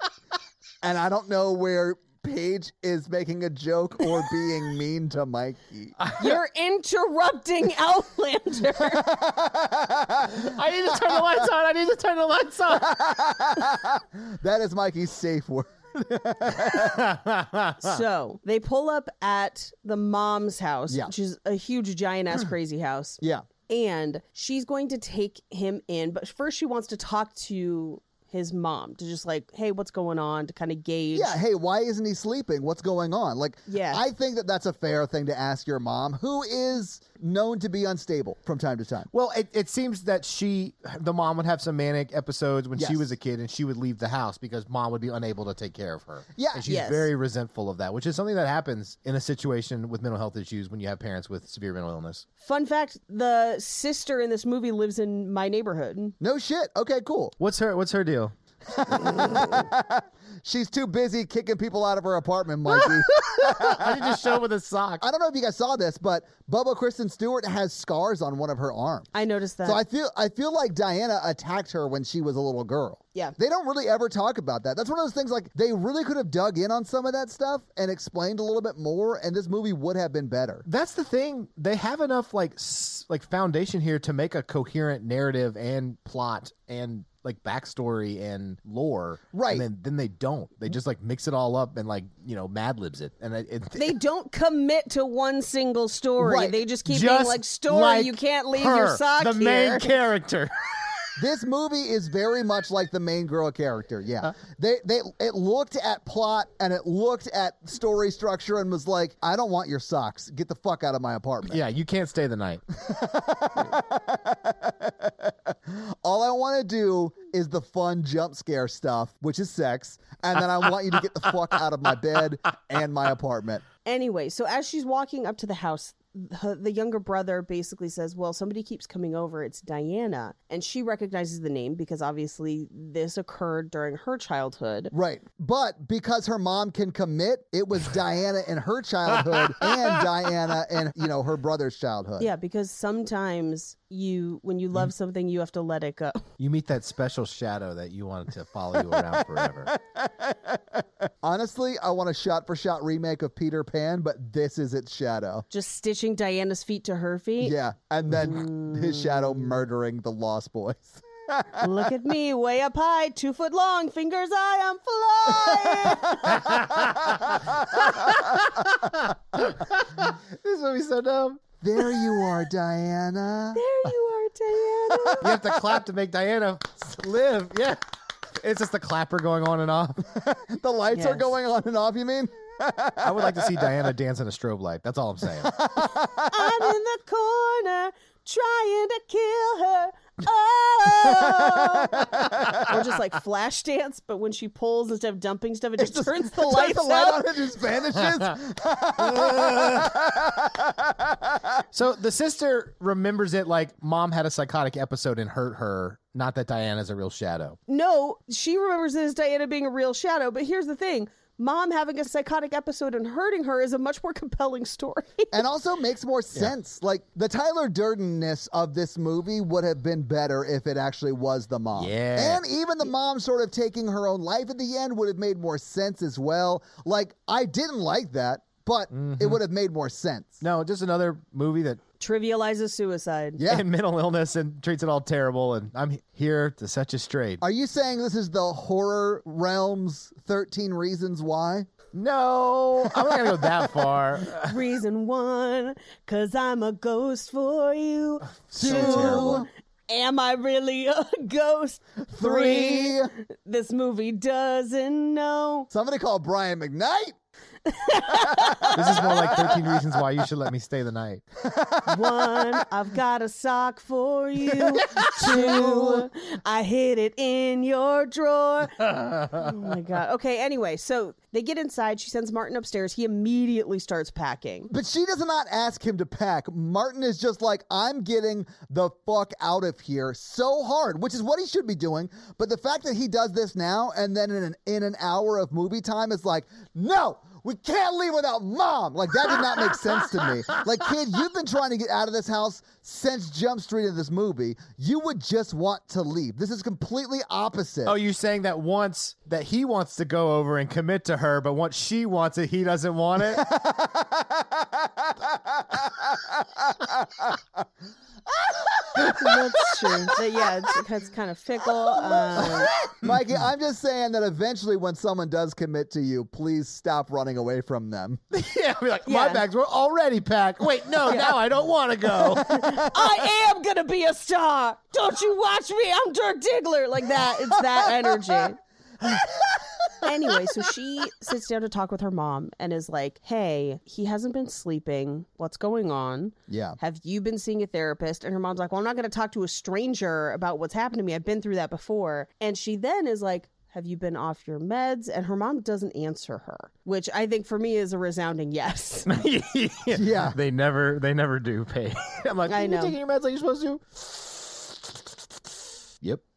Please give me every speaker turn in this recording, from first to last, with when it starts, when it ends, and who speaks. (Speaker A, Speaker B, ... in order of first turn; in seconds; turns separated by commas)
Speaker A: 0.8-6.0, Speaker B: 6.0-6.4, Speaker C: 6.2-9.1, Speaker A: 8.9-10.5, Speaker B: 10.3-12.9, Speaker A: 12.8-17.1, Speaker B: 16.6-18.0, Speaker C: 17.8-31.4, Speaker A: 23.2-23.4, Speaker A: 31.1-39.1, Speaker C: 33.7-34.0, Speaker B: 39.1-52.2, Speaker A: 42.8-43.1, Speaker A: 46.4-46.7, Speaker C: 46.6-47.1, Speaker C: 52.4-56.1, Speaker A: 56.2-57.3, Speaker B: 57.4-58.3, Speaker A: 58.7-63.9, Speaker B: 63.1-65.0, Speaker A: 65.0-69.1, Speaker C: 69.1-69.8, Speaker A: 69.6-80.7, Speaker B: 80.7-94.0, Speaker A: 89.3-89.7, Speaker C: 93.8-99.9, Speaker A: 96.2-96.6, Speaker B: 96.8-100.5, Speaker A: 101.2-111.6, Speaker B: 111.5-112.6, Speaker A: 112.8-123.6, Speaker C: 123.8-134.9, Speaker A: 134.9-142.3, Speaker B: 139.6-139.9, Speaker C: 142.2-146.3, Speaker B: 146.4-149.7, Speaker A: 151.2-155.4, Speaker C: 155.5-157.5, Speaker A: 157.4-161.7, Speaker C: 158.2-159.4, Speaker C: 161.6-166.6, Speaker B: 166.3-171.4, Speaker A: 166.5-168.5, Speaker A: 171.6-173.6, Speaker C: 173.5-175.4, Speaker B: 175.2-177.8, Speaker B: 178.4-180.0, Speaker A: 180.1-183.6, Speaker C: 180.9-181.3, Speaker B: 183.0-185.6, Speaker A: 185.5-186.7, Speaker C: 186.3-197.4, Speaker A: 191.9-192.7, Speaker A: 195.8-201.6, Speaker B: 199.1-199.9, Speaker B: 201.7-207.6, Speaker C: 207.7-215.4, Speaker A: 215.3-230.4, Speaker B: 221.8-222.4, Speaker B: 228.9-229.4, Speaker B: 230.4-231.8, Speaker C: 232.0-233.4, Speaker A: 233.4-233.7, Speaker B: 233.4-237.4, Speaker A: 237.4-241.7, Speaker B: 241.9-244.6, Speaker C: 244.4-255.7, Speaker B: 248.5-249.4, Speaker A: 248.5-249.5, Speaker A: 252.0-253.1, Speaker A: 255.7-257.2, Speaker C: 257.6-259.5, Speaker A: 258.1-258.8, Speaker B: 258.7-261.2, Speaker A: 261.4-262.5, Speaker C: 261.9-274.7, Speaker B: 264.7-265.4, Speaker A: 265.1-266.1, Speaker B: 269.0-269.5, Speaker A: 274.7-297.9, Speaker B: 297.9-303.5, Speaker A: 303.4-307.4, Speaker B: 308.9-310.2, Speaker C: 309.0-312.7, Speaker B: 312.2-313.1, Speaker A: 312.4-318.2, Speaker B: 318.3-323.1, Speaker C: 319.1-319.4, Speaker C: 321.1-321.4, Speaker C: 322.3-328.6, Speaker A: 329.1-329.4, Speaker C: 330.0-349.1, Speaker A: 336.5-336.8, Speaker B: 349.1-355.3, Speaker A: 349.9-350.4, Speaker C: 352.5-353.0